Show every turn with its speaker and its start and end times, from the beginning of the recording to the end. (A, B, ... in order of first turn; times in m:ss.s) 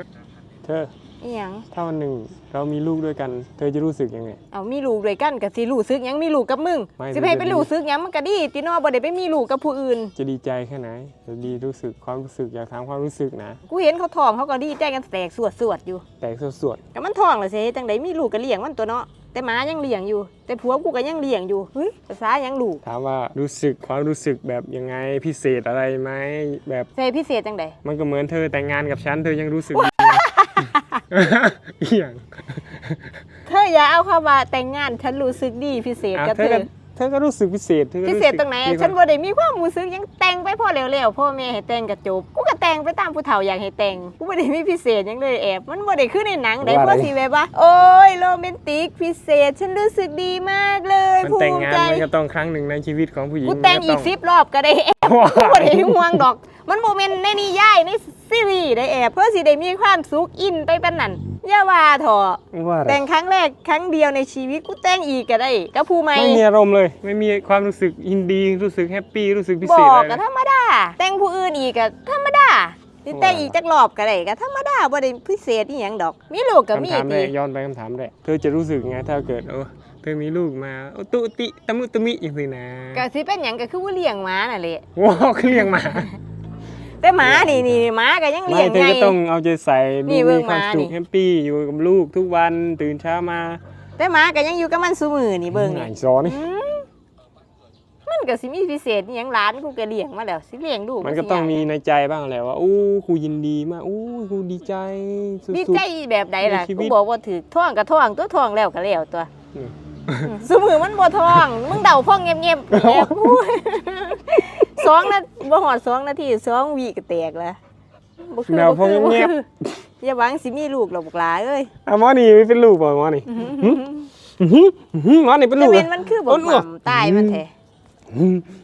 0:00.6-0:00.9 A
0:01.2-0:01.7 B
0:01.7-0:04.4 A
0:04.5-0:10.1 B
0:07.0-0:07.7 A
0:10.2-0:13.6 A
0:13.7-0:16.0 B
0:16.2-0:16.8 A
0:16.9-0:22.8 B
0:22.8-0:26.9 A
0:27.0-0:27.8 B
0:27.8-0:30.2 A
0:29.7-0:31.0 B
0:31.1-0:33.1 A
0:33.5-0:36.7 B
0:36.1-0:39.0 A
0:38.0-0:52.1 B
0:46.6-0:47.1 A
0:51.2-0:54.1 A
0:53.4-1:06.4 B
0:55.0-0:56.2 A
1:02.5-1:03.0 A
1:06.1-1:10.2 A
1:09.6-1:17.3 B
1:13.1-1:13.6 A
1:16.7-1:23.1 A
1:22.9-1:24.8 B
1:25.0-1:26.2 A
1:27.0-1:29.2 B
1:27.2-1:27.9 A
1:28.5-1:33.6 A
1:30.1-1:30.9 B
1:34.0-1:36.9 B
1:35.5-1:36.4 A
1:38.1-1:41.7 B
1:41.0-1:45.8 A
1:45.5-1:49.3 B
1:46.4-1:47.0 A
1:49.5-1:50.3 A
1:50.2-1:57.6 B
1:52.7-1:53.3 A
1:58.2-1:59.4 B
1:58.5-1:59.7 A
2:00.0-2:01.7 B
2:01.8-2:03.8 A
2:03.3-2:04.1 B
2:04.4-2:07.4 A
2:05.6-2:07.5 B
2:08.1-2:08.5 A